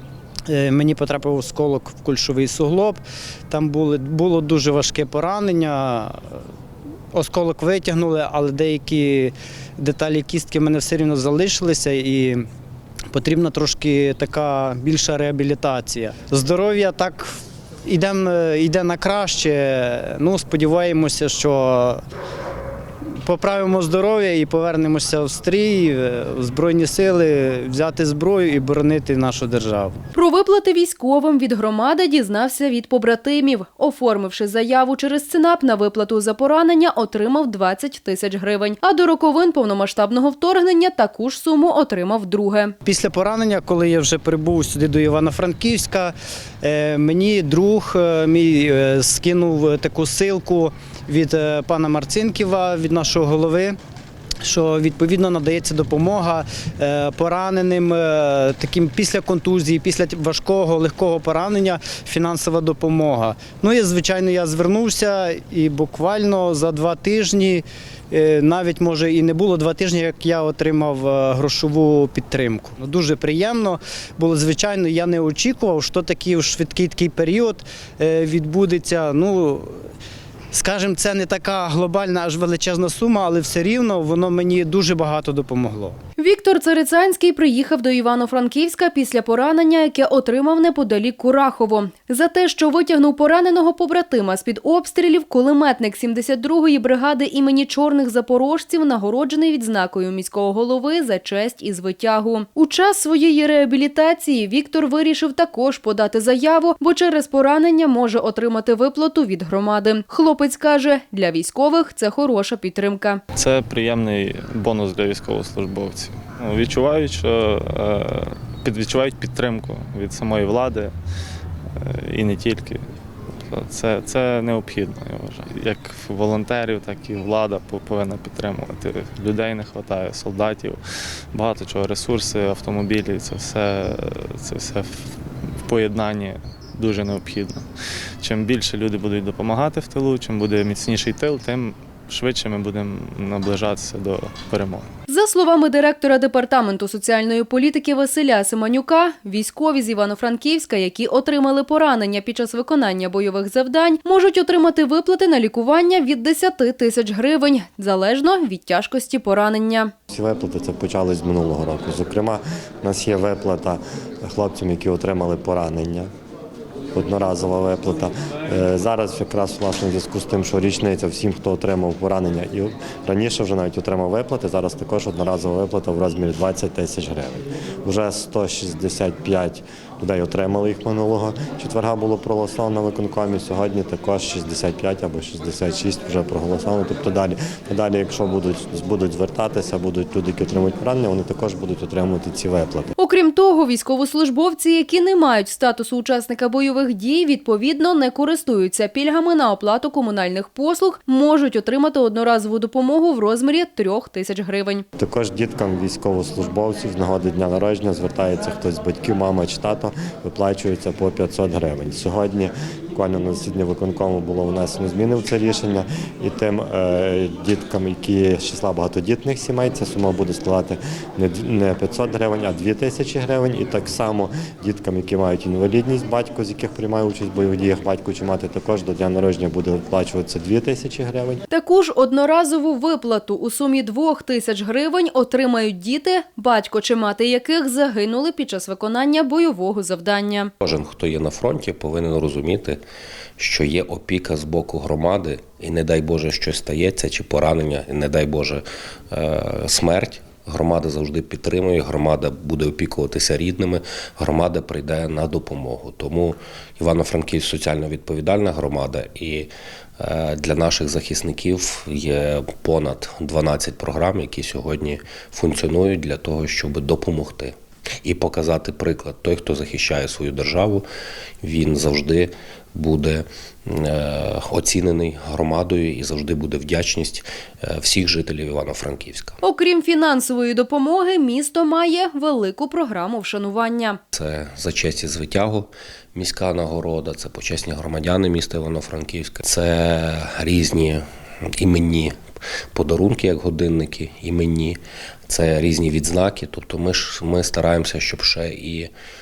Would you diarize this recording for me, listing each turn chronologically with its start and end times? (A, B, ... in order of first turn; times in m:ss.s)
0:00.5-0:06.4 A
0:07.1-0:12.4 A
0:13.1-0:22.0 A
0:23.2-0:30.0 A
0:30.1-0:42.7 B
0:42.8-0:53.8 A
0:54.4-1:19.8 A
1:20.5-1:26.0 A
1:26.2-1:53.2 B
1:53.4-2:00.9 C
2:01.8-2:02.8 C
2:03.5-2:10.8 C
2:11.3-2:15.1 C
2:15.6-2:17.6 C
2:18.2-2:24.9 C
2:25.1-2:39.9 B
2:40.1-2:46.1 D
2:46.9-3:12.9 D
3:13.0-3:24.8 B
3:25.0-3:51.4 D
3:51.5-4:00.5 B
4:00.6-4:02.8 E
4:03.4-4:30.8 E
4:31.4-4:39.4 E
4:39.4-4:44.0 B
4:44.1-4:51.0 E
4:51.6-4:52.1 E
4:52.8-4:58.9 E